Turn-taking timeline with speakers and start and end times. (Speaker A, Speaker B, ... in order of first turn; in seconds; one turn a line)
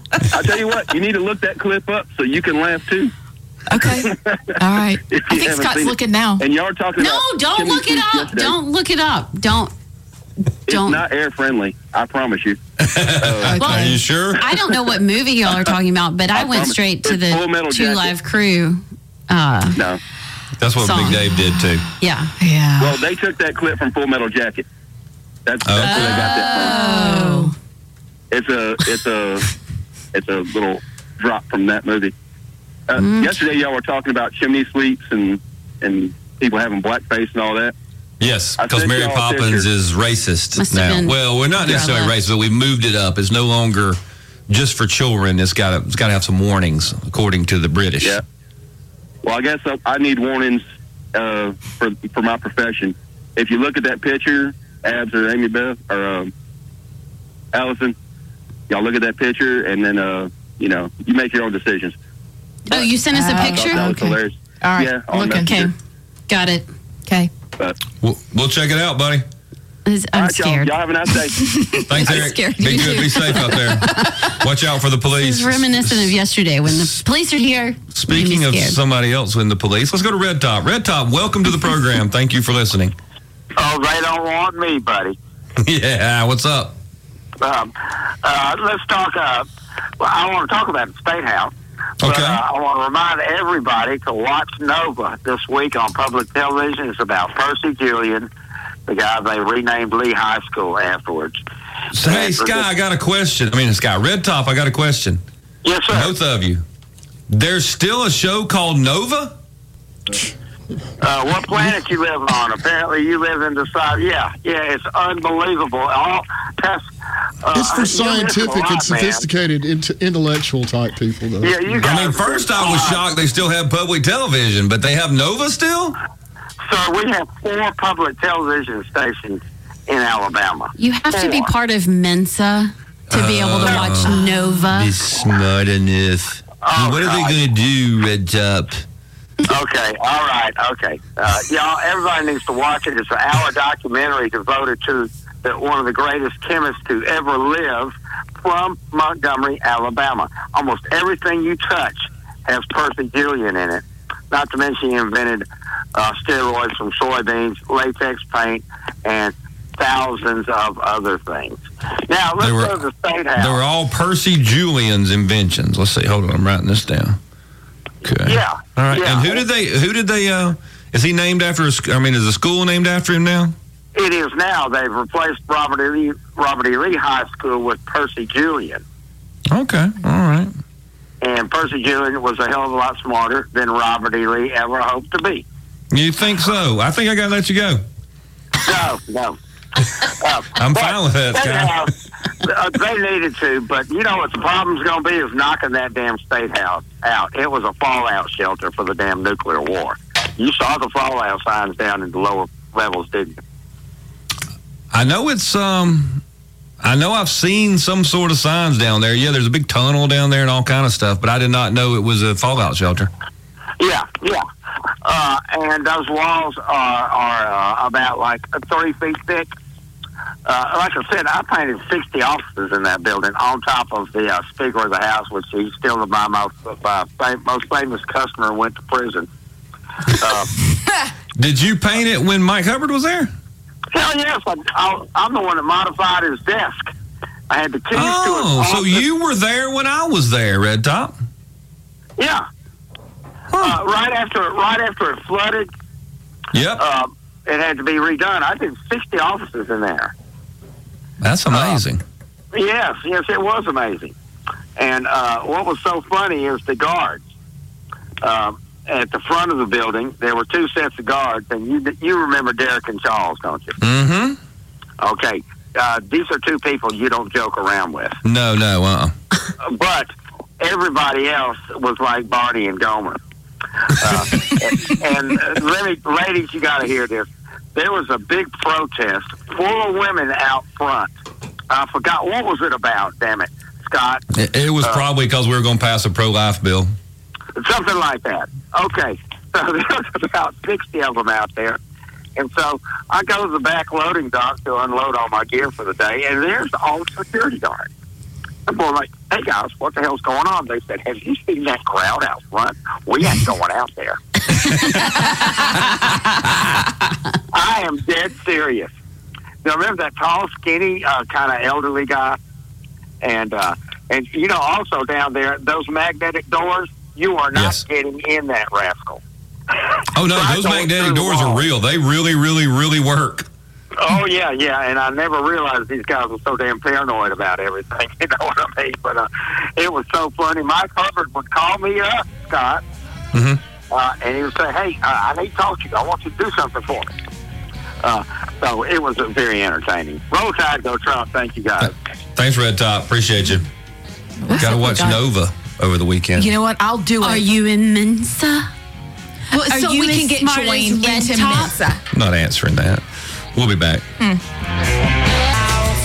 Speaker A: 0.3-3.1
Speaker B: 3.7-6.4
Speaker A: 4.0-4.5
Speaker A: 5.1-8.6
Speaker C: 7.0-9.7
Speaker C: 10.7-11.0
Speaker A: 10.7-12.6
Speaker D: 12.8-14.6
Speaker A: 13.2-14.0
Speaker B: 13.5-14.0
Speaker C: 13.6-19.8
Speaker A: 16.3-18.1
Speaker D: 20.6-21.9
Speaker C: 20.8-21.2
Speaker C: 22.0-22.3
Speaker B: 22.4-23.0
Speaker A: 22.8-24.6
Speaker A: 25.5-26.9
Speaker D: 25.6-26.1
Speaker C: 25.8-27.5
Speaker B: 26.4-27.6
Speaker A: 28.3-29.5
Speaker A: 30.1-32.1
Speaker A: 32.9-37.8
Speaker C: 33.0-33.4
Speaker D: 38.2-48.2
Speaker A: 38.6-39.7
Speaker C: 40.6-42.1
Speaker A: 49.2-50.6
Speaker A: 51.1-56.3
Speaker A: 57.5-58.0
Speaker A: 58.7-62.0
Speaker C: 62.7-64.0
Speaker A: 62.7-65.7
Speaker B: 63.1-65.7
Speaker C: 66.3-66.7
Speaker B: 67.1-67.3
Speaker D: 68.0-69.3
Speaker C: 69.9-70.7
Speaker A: 70.1-71.5
Speaker B: 71.4-74.3
Speaker D: 71.9-76.2
Speaker C: 75.2-78.8
Speaker D: 76.7-77.0
Speaker D: 77.9-83.0
Speaker E: 83.6-85.2
Speaker D: 85.6-86.8
Speaker E: 87.4-89.5
Speaker E: 90.0-98.3
Speaker D: 92.0-92.4
Speaker E: 98.9-101.4
Speaker D: 101.9-105.2
Speaker E: 102.0-102.7
Speaker E: 105.6-106.1
Speaker D: 105.9-106.6
Speaker D: 107.3-109.4
Speaker E: 111.0-116.9
Speaker E: 117.4-119.3
Speaker F: 117.5-121.8
Speaker E: 121.4-123.0
Speaker D: 121.8-126.0
Speaker E: 126.7-131.5
Speaker C: 130.8-135.0
Speaker D: 133.1-134.2
Speaker E: 133.7-133.9
Speaker D: 134.7-138.8
Speaker E: 136.6-137.4
Speaker E: 139.5-163.6
Speaker D: 162.4-162.8
Speaker D: 163.4-167.2
Speaker D: 168.0-173.6
Speaker E: 168.2-169.4
Speaker E: 173.9-178.8
Speaker D: 179.5-180.5
Speaker E: 181.2-185.4
Speaker D: 185.9-187.8
Speaker E: 188.6-189.4
Speaker E: 190.0-203.4
Speaker D: 190.6-191.9
Speaker D: 204.9-206.2
Speaker D: 206.8-213.1
Speaker E: 213.8-214.4
Speaker E: 215.0-219.5
Speaker E: 220.4-229.3
Speaker E: 230.1-230.5
Speaker D: 231.4-233.3
Speaker E: 233.9-236.9
Speaker E: 237.5-239.0
Speaker D: 237.9-241.2
Speaker E: 242.2-242.4
Speaker D: 243.5-243.8
Speaker E: 243.5-245.7
Speaker D: 246.5-246.8
Speaker E: 246.8-250.1
Speaker D: 251.2-252.0
Speaker E: 251.5-251.8
Speaker E: 252.5-254.1
Speaker E: 254.8-257.2
Speaker E: 258.2-263.8
Speaker D: 263.8-264.4
Speaker E: 265.0-268.2
Speaker D: 268.2-269.1
Speaker E: 269.6-273.2
Speaker E: 273.9-281.1
Speaker E: 281.7-284.2
Speaker D: 284.3-286.9
Speaker E: 287.6-291.8
Speaker E: 292.4-297.9
Speaker E: 298.7-304.2
Speaker E: 304.9-305.3
Speaker E: 307.5-308.9
Speaker E: 309.6-312.4
Speaker E: 313.2-319.2
Speaker D: 317.6-317.8
Speaker D: 320.1-323.5
Speaker E: 320.2-321.7
Speaker E: 324.0-332.8
Speaker D: 333.3-333.6
Speaker E: 333.9-337.1
Speaker E: 338.0-341.9
Speaker D: 341.8-343.7
Speaker B: 344.4-345.2
Speaker D: 344.6-346.5
Speaker B: 346.4-347.5
Speaker C: 347.2-348.7
Speaker B: 349.5-352.0
Speaker C: 349.5-351.8
Speaker D: 352.1-354.1